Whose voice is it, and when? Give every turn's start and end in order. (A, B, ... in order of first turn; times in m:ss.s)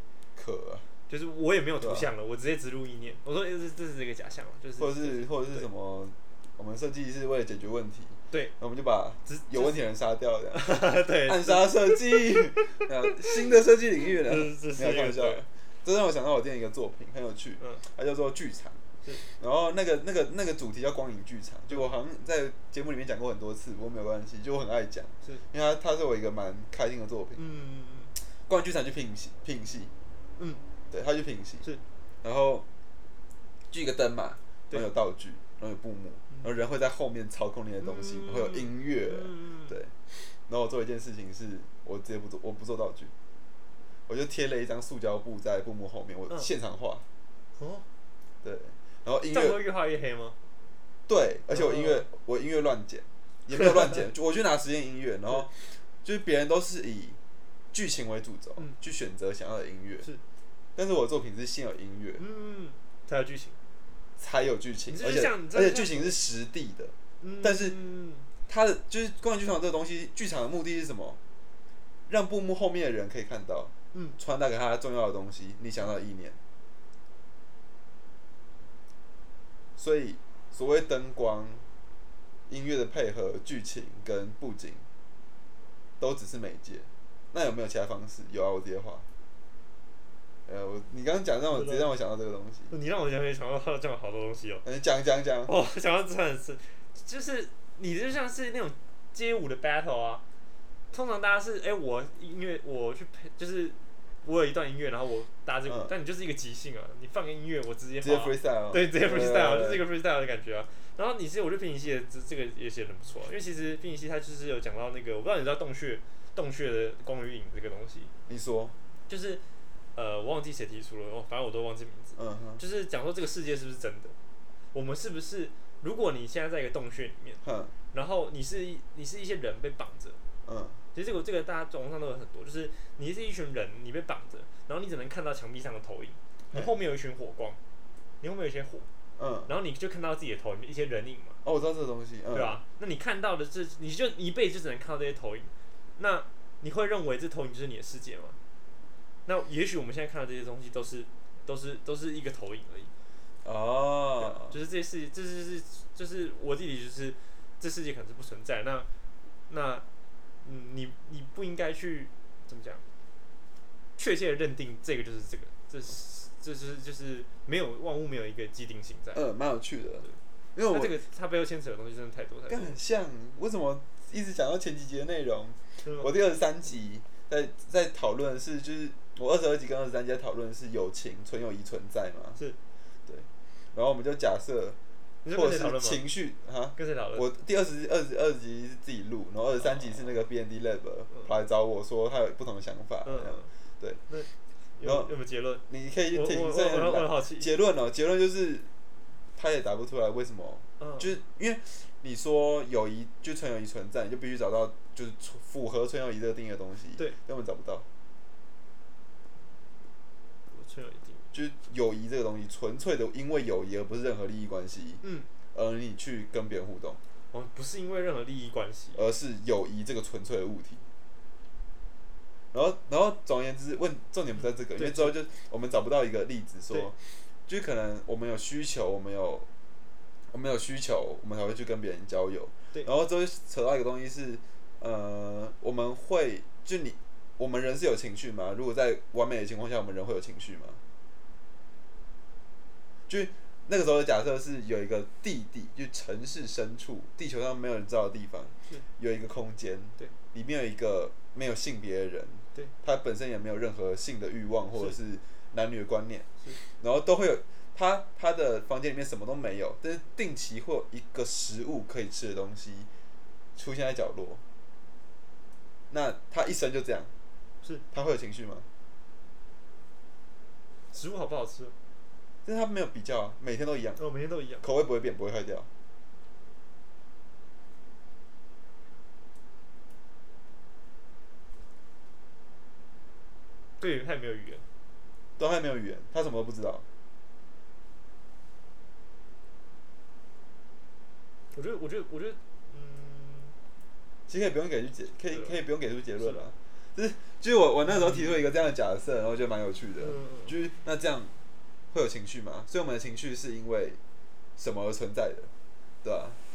0:00.4-0:00.9 A
0:01.1-0:05.7 B
0:01.8-0:02.1 A
0:04.8-0:27.4 A
0:09.3-0:09.8 B
0:10.5-0:13.3 B
0:14.2-0:15.4 B
0:27.4-0:28.1 B
0:28.5-0:29.9 A
0:30.9-0:31.7 A
0:32.2-0:32.7 A
0:33.7-0:43.1 A
0:37.8-0:39.8 B
0:44.1-0:47.0 A
0:47.6-0:47.8 B
0:48.4-0:49.6 A
0:49.3-0:50.4 B
0:51.1-0:57.2 A
0:51.5-0:52.1 B
0:53.6-0:54.0 B
0:57.7-1:00.1 A
1:00.8-1:02.2 A
1:02.2-1:03.6 B
1:04.2-1:07.8 A
1:04.9-1:06.2 B
1:07.2-1:08.3 B
1:08.5-1:11.2 A
1:12.1-1:16.4 A
1:19.8-1:21.6 A
1:22.5-1:24.8 A
1:26.0-1:29.1 A
1:30.5-1:32.7 A
1:31.5-1:31.8 B
1:32.7-1:34.6 B
1:34.6-1:35.5 A
1:35.5-1:40.2 B
1:40.9-1:58.1 B
1:45.7-1:45.9 A
1:48.0-1:49.8 A
1:58.3-1:58.8 A
1:59.1-1:59.4 B
2:00.0-2:04.2 B
2:02.2-2:02.6 A
2:04.7-2:07.4 B
2:07.4-2:07.7 A
2:07.9-2:10.2 B
2:10.5-2:10.8 A
2:10.9-2:17.6 B
2:18.2-2:18.9 B
2:19.2-2:19.5 A
2:19.5-2:21.4 B
2:21.4-2:22.6 A
2:22.3-2:28.4 B
2:29.3-2:32.9 B
2:33.4-2:34.6 A
2:34.2-2:38.9 B
2:39.5-2:39.8 B
2:40.4-2:42.8 B
2:44.0-2:49.2 B
2:49.1-2:51.0 A
2:50.0-2:52.8 B
2:52.5-3:02.4 A
2:55.8-2:56.1 B
3:03.1-3:04.8 A
3:05.2-3:06.0 B
3:05.3-3:14.0 A
3:06.8-3:07.2 B
3:09.6-3:10.1 B
3:13.0-3:13.5 B
3:14.1-3:17.5 B
3:14.8-3:15.1 A
3:15.7-3:18.7 A
3:19.4-3:27.9 A
3:20.8-3:21.1 B
3:30.5-3:31.2 B
3:31.3-3:35.0 A
3:35.0-3:35.3 B
3:35.5-3:37.0 A
3:37.3-3:39.0 B
3:39.0-3:40.8 A
3:42.5-3:49.5 A
3:44.4-3:45.2 B
3:50.3-4:00.8 A
4:03.1-4:22.9 A
4:23.6-4:24.4 A
4:25.9-4:27.1 A
4:27.9-4:28.7 A
4:30.9-4:31.7 B
4:32.4-4:34.0 A
4:34.0-4:34.6 B
4:34.6-4:35.7 A
4:43.8-4:44.6 B
4:45.4-4:46.8 A
4:51.5-4:53.6 B
4:54.3-5:01.3 A
4:55.3-4:55.6 B
4:56.2-4:56.4 B
4:57.9-4:58.4 B
5:00.0-5:00.6 B
5:01.9-5:04.0 A
5:04.6-5:05.5 A
5:06.0-5:06.4 A